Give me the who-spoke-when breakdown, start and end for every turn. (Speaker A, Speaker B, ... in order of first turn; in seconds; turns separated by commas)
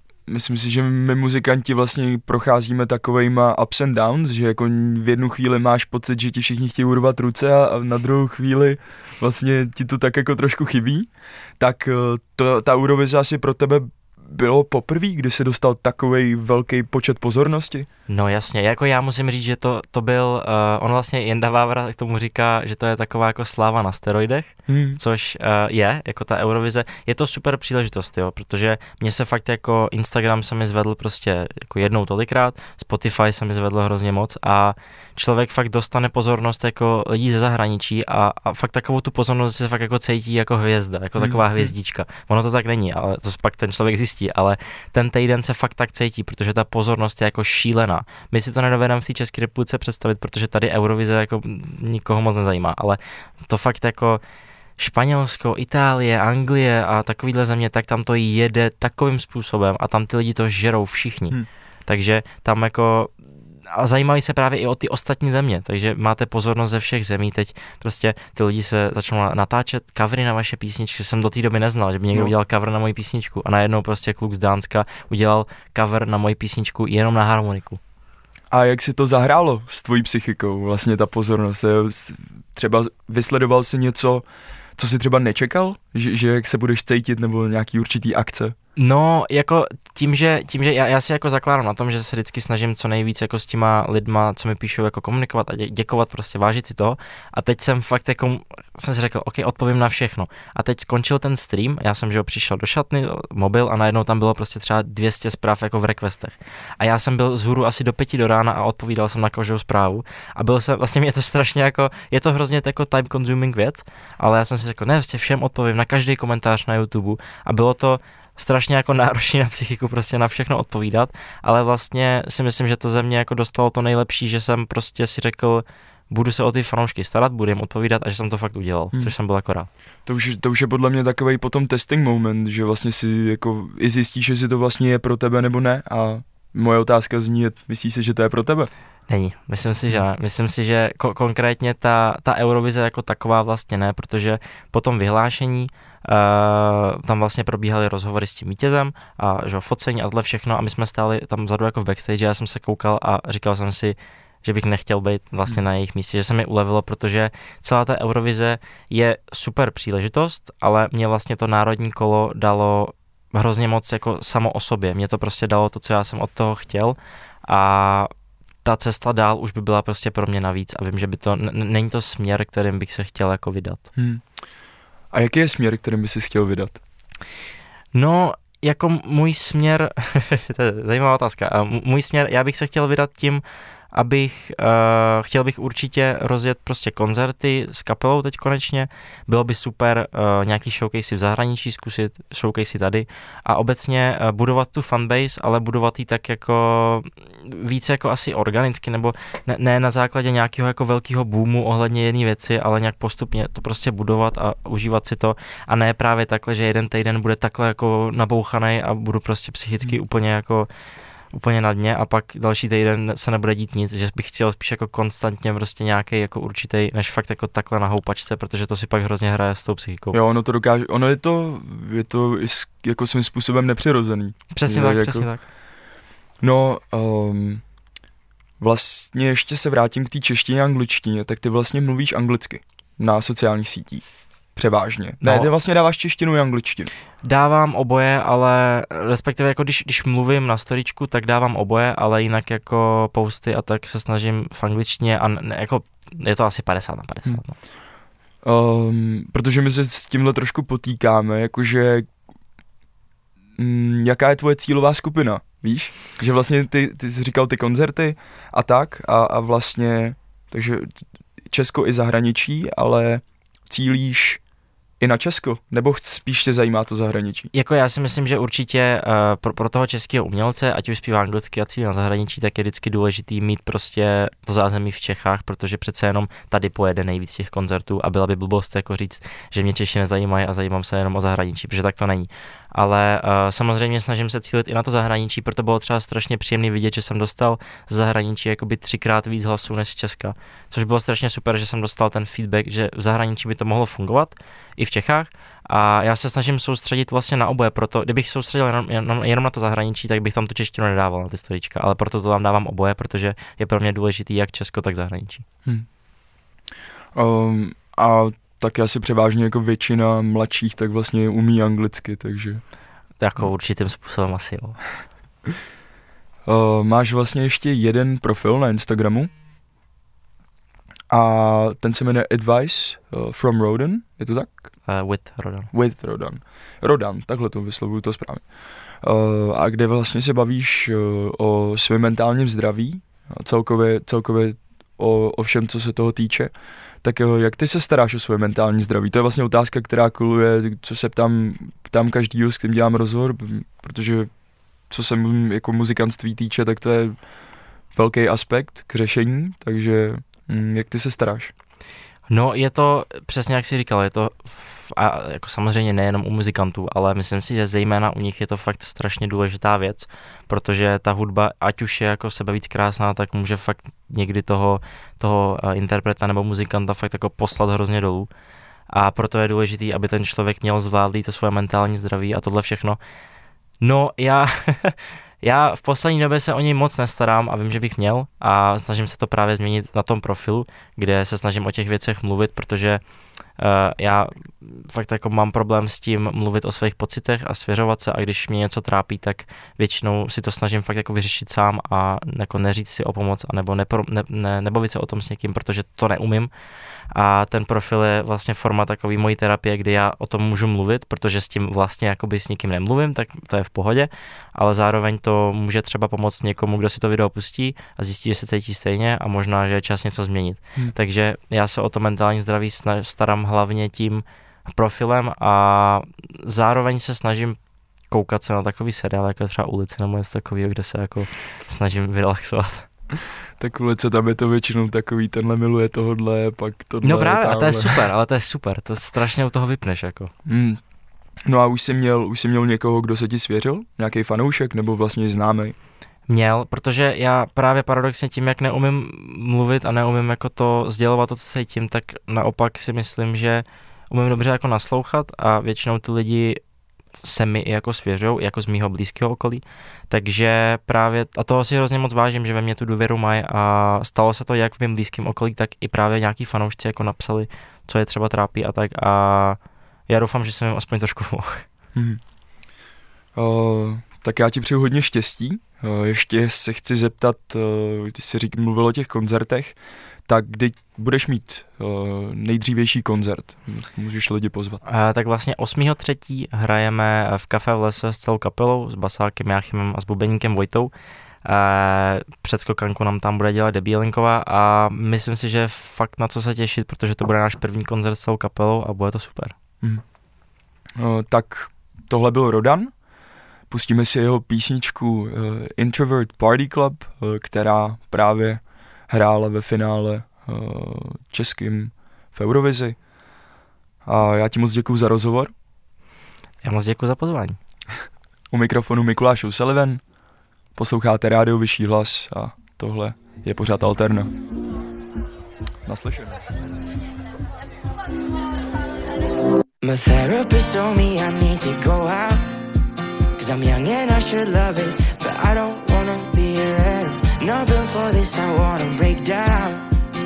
Speaker A: 0.3-17.9, Speaker B: 18.1-54.2, Speaker A: 24.7-25.0, Speaker A: 41.2-41.7, Speaker B: 54.8-63.2, Speaker B: 63.7-77.8, Speaker A: 78.5-84.3, Speaker A: 84.8-88.5, Speaker B: 88.8-129.7, Speaker A: 130.1-138.7, Speaker B: 139.1-168.1, Speaker B: 168.6-173.8, Speaker A: 174.0-174.2, Speaker A: 175.1-176.8, Speaker B: 177.9-210.7, Speaker B: 211.3-220.2, Speaker A: 220.1-225.3, Speaker B: 224.5-225.4, Speaker A: 226.4-227.6, Speaker A: 228.6-234.0, Speaker A: 234.6-236.9, Speaker B: 235.2-235.5, Speaker B: 237.2-247.6, Speaker A: 248.4-252.1, Speaker A: 253.6-261.0, Speaker A: 261.5-264.4, Speaker A: 265.0-267.5, Speaker B: 267.5-305.4, Speaker A: 307.1-312.6, Speaker B: 313.2-314.8, Speaker A: 316.5-319.3, Speaker A: 321.1-324.6, Speaker B: 324.9-325.7, Speaker A: 325.7-328.4, Speaker A: 329.0-336.5, Speaker A: 337.0-344.3, Speaker A: 344.9-347.2, Speaker A: 347.9-351.5, Speaker B: 352.3-368.3, Speaker B: 368.9-373.0, Speaker B: 373.8-383.0, Speaker B: 383.6-396.5, Speaker B: 397.1-417.6, Speaker B: 418.1-422.9, Speaker A: 423.6-428.1, Speaker B: 427.0-430.3, Speaker A: 430.5-430.8, Speaker A: 431.5-435.8, Speaker B: 436.3-446.6, Speaker B: 447.2-461.6, Speaker A: 461.9-462.2, Speaker A: 463.4-474.8, Speaker B: 474.8-480.9, Speaker B: 481.4-489.6, Speaker A: 491.0-492.9, Speaker A: 493.7-503.0, Speaker A: 504.1-505.5, Speaker B: 506.6-507.6, Speaker A: 508.5-510.0, Speaker A: 510.8-514.3, Speaker A: 515.9-516.4, Speaker C: 519.8-522.5, Speaker C: 523.4-529.9